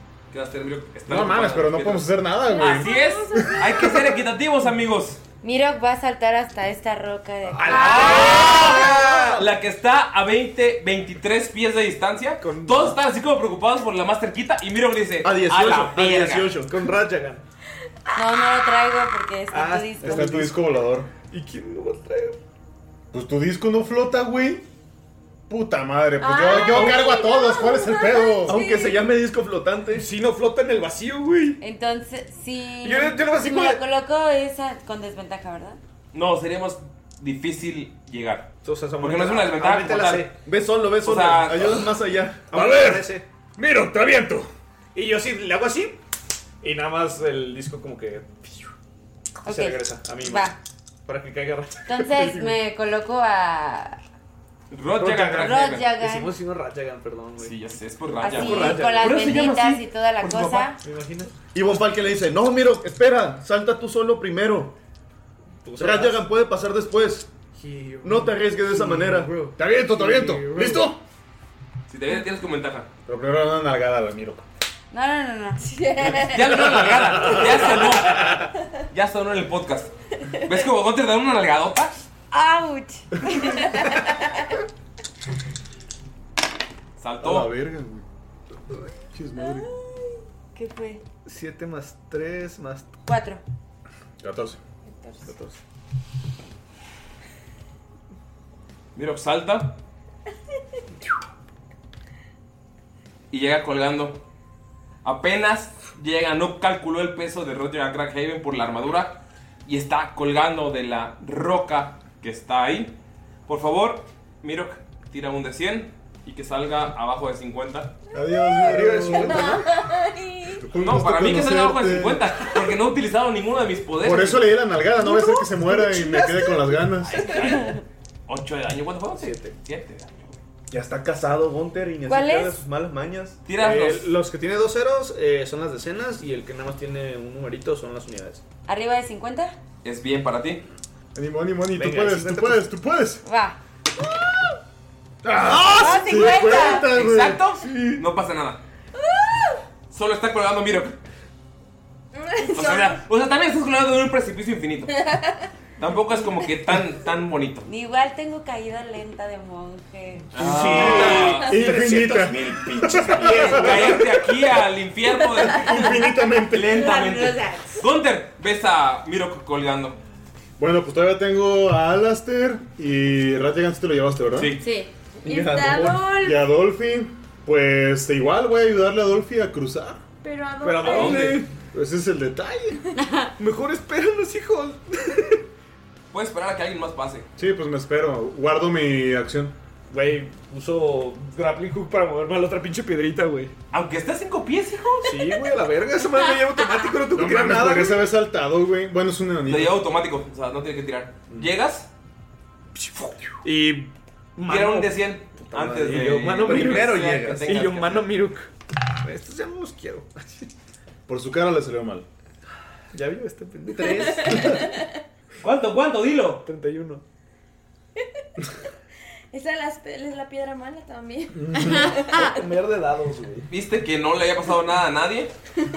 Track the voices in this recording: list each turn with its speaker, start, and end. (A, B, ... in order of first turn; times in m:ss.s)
0:00.3-0:05.2 A
0:01.1-0:03.1 B
0:02.5-0:04.2 C
0:05.4-0:09.0 D
0:07.5-0:09.5 E
0:07.7-0:08.9 C
0:07.7-0:16.6 A
0:12.4-0:13.0 E
0:15.2-0:16.9 F
0:16.7-0:17.4 E
0:18.1-0:18.4 C
0:18.2-0:20.4 D
0:19.5-0:20.6 E
0:20.0-0:21.1 B
0:21.2-0:22.4 E
0:23.1-0:24.6 B
0:25.5-0:28.6 B
0:26.2-0:29.0 C
0:26.6-0:27.0 F
0:28.5-0:30.1 F
0:29.9-0:31.6 E
0:31.6-0:35.8 D
0:32.8-0:33.8 E
0:36.1-0:40.3 A
0:38.6-0:40.3 E
0:40.4-0:42.5 F
0:41.0-0:41.9 A
0:42.5-0:43.2 E
0:42.5-0:44.5 G
0:45.0-0:46.0 E
0:46.6-0:48.7 E
0:49.4-0:50.5 E
0:49.4-0:50.6 D
0:51.1-0:52.6 E
0:51.9-0:54.0 D
0:54.7-0:56.0 A
0:55.0-0:57.6 E
0:55.4-0:56.4 D
0:57.4-1:00.7 A
0:58.2-1:00.8 D
0:58.3-0:59.3 E
1:00.8-1:01.3 E
1:01.5-1:04.8 F
1:05.6-1:06.2 E
1:05.8-1:07.3 F
1:07.6-1:10.9 E
1:08.0-1:09.4 F
1:09.6-1:10.9 B
1:10.2-1:11.0 G
1:11.9-1:12.9 A
1:13.1-1:14.4 B
1:14.9-1:16.2 D
1:15.6-1:16.4 C
1:16.2-1:19.9 A
1:20.4-1:22.0 A
1:22.3-1:24.4 D
1:27.0-1:27.5 A
1:27.2-1:28.0 B
1:29.1-1:29.7 B
1:30.6-1:31.0 D
1:31.3-1:32.9 E
1:33.0-1:33.4 D
1:34.2-1:34.6 B
1:35.3-1:35.6 E
1:39.0-1:39.8 A
1:43.3-1:44.2 A
1:45.0-1:58.0 A
1:58.1-1:59.6 B
1:58.6-1:59.7 E
1:59.2-2:00.6 C
2:00.6-2:02.4 B
2:00.8-2:04.6 A
2:04.0-2:07.2 B
2:05.0-2:06.2 C
2:05.1-2:05.4 D
2:06.0-2:06.6 D
2:07.0-2:10.4 A
2:07.3-2:07.7 E
2:09.1-2:09.6 E
2:10.7-2:13.4 F
2:12.0-2:12.6 D
2:13.5-2:14.1 A
2:13.6-2:18.4 E
2:18.7-2:19.6 D
2:19.8-2:20.6 A
2:21.2-2:23.2 B
2:21.7-2:22.7 E
2:23.2-2:23.6 D
2:25.2-2:25.7 E
2:25.4-2:27.4 B
2:25.7-2:26.9 D
2:26.5-2:28.6 A
2:29.0-2:29.6 C
2:29.9-2:31.0 A
2:32.2-2:33.0 C
2:32.5-2:35.0 A
2:35.1-2:35.4 C
2:35.8-2:37.7 A
2:37.6-2:40.8 D
2:40.3-2:41.6 A
2:40.4-2:44.1 E
2:40.4-2:44.2 B
2:41.4-2:41.7 D
2:43.2-2:43.7 D
2:43.4-2:46.0 A
2:45.5-2:46.8 B
2:46.5-2:50.0 A
2:46.6-2:47.9 D
2:50.6-2:54.6 B
2:54.4-2:54.7 A
2:54.6-2:54.9 D
2:55.2-2:56.1 F
2:55.2-2:56.4 C
2:56.2-3:00.0 B
3:00.2-3:01.4 C
3:00.6-3:01.5 E
3:00.8-3:01.4 A
3:01.7-3:02.8 B
3:03.0-3:03.3 D
3:03.4-3:05.4 E
3:06.1-3:07.3 A
3:07.4-3:09.6 B
3:09.9-3:13.5 E
3:13.7-3:15.2 A
3:15.0-3:18.0 E
3:17.1-3:19.8 B
3:19.5-3:21.9 A
3:22.8-3:28.5 E
3:24.5-3:28.1 A
3:25.6-3:27.7 F
3:29.0-3:30.5 E
3:31.1-3:32.1 B
3:32.9-3:34.7 E
3:34.0-3:34.8 C
3:35.4-3:36.4 A
3:36.4-3:37.0 E
3:39.3-3:42.3 C
3:41.4-3:41.9 B
3:42.0-3:43.5 E
3:43.5-3:45.3 A